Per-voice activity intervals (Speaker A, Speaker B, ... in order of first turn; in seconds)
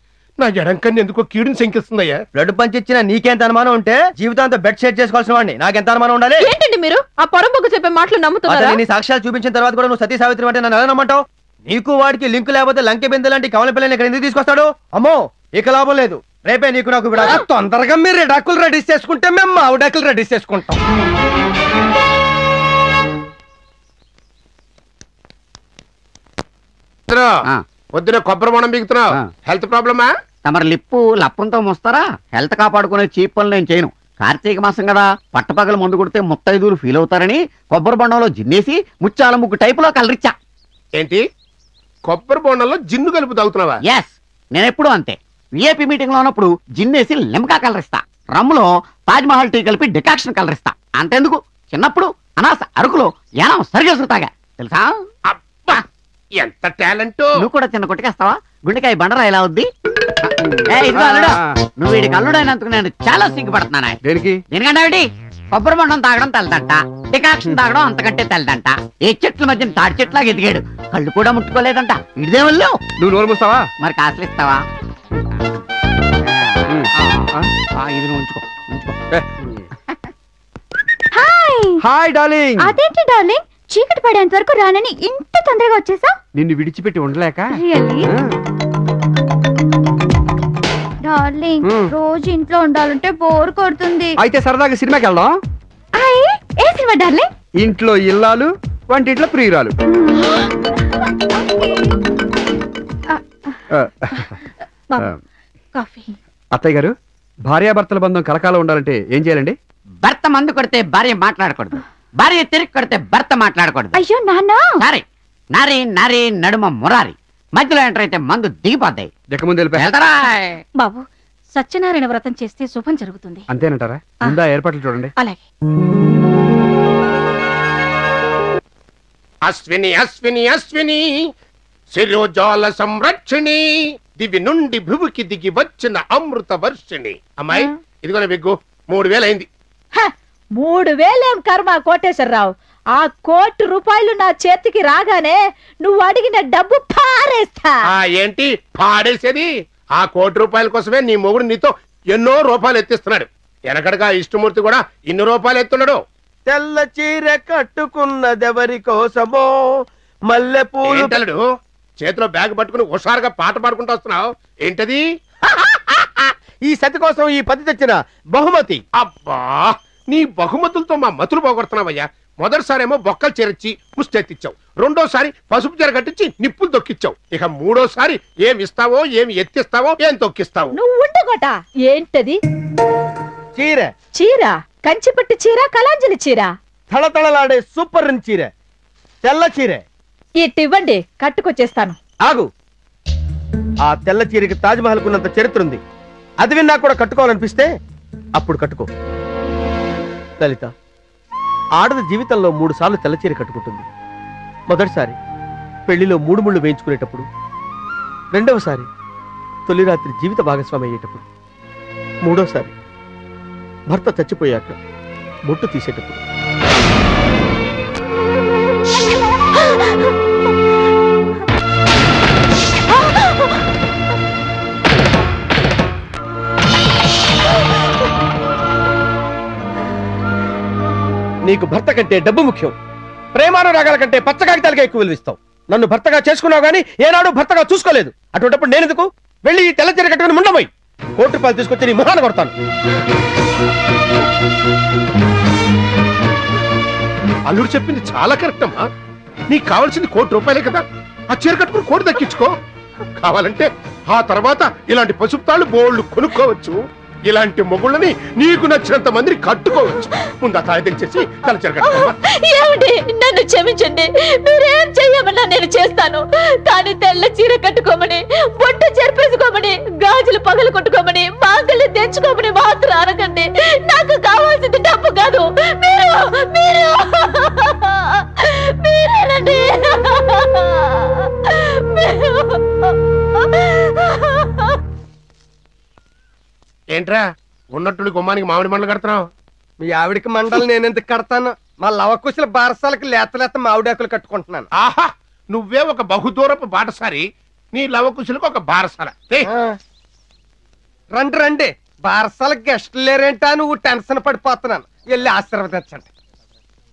Speaker A: 0.4-2.2, 27.1-27.4, 27.9-30.1, 42.1-43.8, 55.3-55.8, 56.4-57.4, 129.4-131.0, 131.9-133.6, 134.2-139.5, 147.9-156.0, 160.8-161.4, 162.0-165.0, 169.0-180.7, 247.5-248.8, 249.5-252.5, 253.2-256.8, 257.3-262.1, 286.9-287.2, 287.7-289.2, 294.8-299.5
Speaker B: 2.3-6.5, 8.5-17.4
Speaker C: 6.4-8.8
Speaker D: 17.2-20.8, 289.8-294.7, 301.1-306.1
Speaker E: 30.4-40.3, 43.8-55.0, 57.4-59.7, 60.2-64.0, 64.5-72.8, 73.8-74.6, 76.3-77.2, 77.8-79.0, 110.0-114.0, 114.8-119.1, 119.8-120.6
Speaker F: 60.5-61.6, 64.0-64.4, 73.0-73.7, 76.7-77.5, 81.8-82.7, 86.3-87.5, 88.1-88.3, 91.6-91.9, 94.2-95.3, 97.6-99.7, 103.7-104.3, 106.5-106.9, 107.5-109.5, 119.3-119.9, 123.5-125.1
Speaker G: 81.1-81.8, 82.6-86.2, 87.6-88.1, 91.0-94.1, 96.0-97.3, 100.2-100.4, 103.1-103.6, 113.9-114.8
Speaker H: 120.8-123.4
Speaker I: 139.9-147.8, 180.7-182.4, 184.2-186.5, 190.4-192.0, 261.8-277.7, 278.8-280.6, 281.9-282.5
Speaker J: 156.5-159.5, 160.3-161.2, 166.7-168.8, 183.6-183.9, 186.9-188.5, 189.2-189.8, 192.2-192.5, 193.8-195.8, 196.4-197.7, 198.4-198.9, 200.4-200.7, 201.8-203.8, 204.7-205.2, 205.9-207.2, 208.3-208.9, 209.7-211.2, 212.2-212.7, 213.9-214.8, 215.5-216.2, 231.4-232.7, 233.3-242.5